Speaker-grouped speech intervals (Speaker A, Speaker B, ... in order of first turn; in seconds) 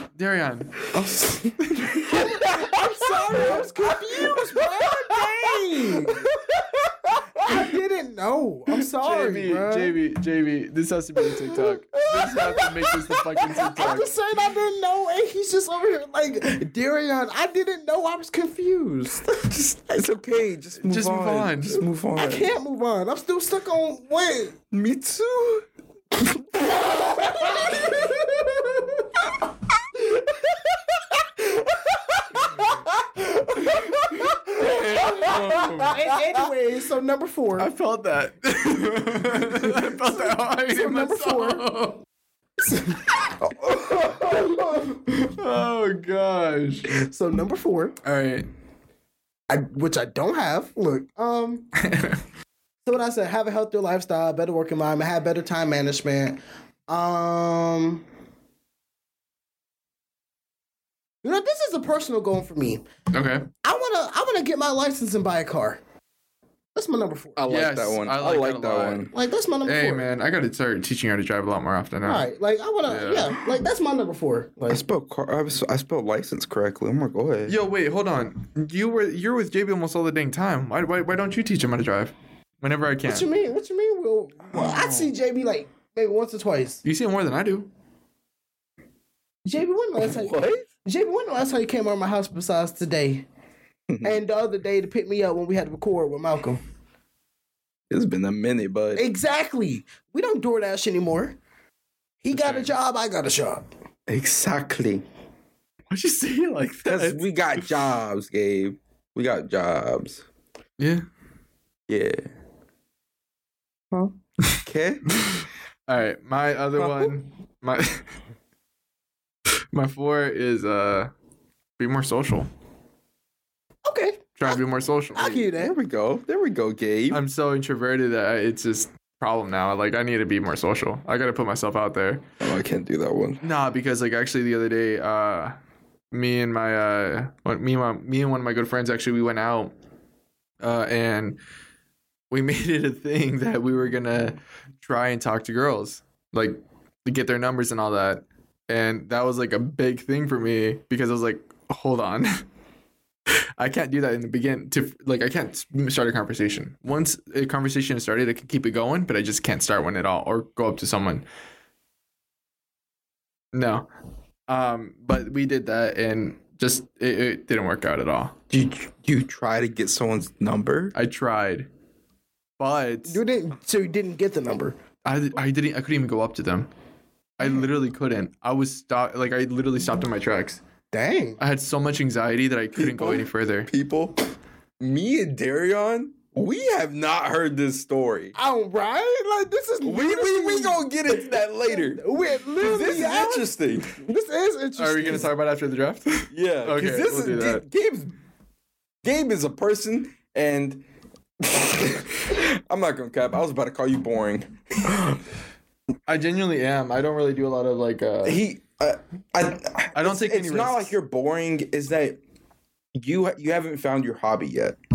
Speaker A: 0.1-0.9, 1.6-2.2, 8.9-14.1, 20.8-21.8, 34.5-36.0, 37.6-42.0, 45.0-47.0, 48.0-48.5, 51.8-52.2, 63.1-63.5, 67.5-69.1, 69.6-72.2, 72.9-73.3, 77.5-83.3, 86.8-87.7, 102.3-102.7, 105.9-107.7, 110.8-111.0, 115.9-118.1, 119.7-121.1, 121.8-122.5, 124.4-125.5, 127.1-132.2, 133.4-135.6, 136.1-139.7, 140.6-141.4, 142.3-152.4, 153.3-161.2, 163.5-163.9, 164.5-168.3, 170.9-171.7, 172.6-173.2, 175.0-176.7, 177.4-180.6, 181.4-183.7, 194.8-197.6, 206.1-208.4, 209.9-210.9
Speaker B: 0.9-1.6, 2.1-6.3, 7.4-10.0, 11.4-19.5, 22.1-24.6, 26.6-28.6, 34.6-37.7, 39.6-41.6, 42.6-43.1, 44.2-44.9, 46.9-48.0, 49.5-51.7, 52.8-58.0, 61.2-62.8, 63.6-65.8, 66.7-67.4, 69.1-70.1, 72.0-74.8, 83.0-86.8, 89.4-93.2, 94.0-96.6, 98.9-101.4, 102.2-103.7, 123.8-124.6, 125.1-125.8, 173.1-174.8, 180.9-181.4, 188.3-195.3
Speaker C: 2.2-5.6, 6.2-7.5, 19.5-22.5, 24.7-25.6, 32.6-33.8, 34.6-35.9, 43.5-44.2, 67.4-69.1, 74.7-77.5, 84.5-85.0, 90.0-90.6, 93.9-94.2, 97.9-99.0, 104.1-105.0, 106.8-110.2, 111.9-112.3, 114.6-115.1, 125.6-127.2, 132.4-133.4, 168.5-170.9, 182.8-184.2, 184.8-188.3, 189.8-192.0, 192.6-193.9, 196.3-198.1, 199.0-200.8, 201.4-205.2, 208.2-212.2, 212.9-214.8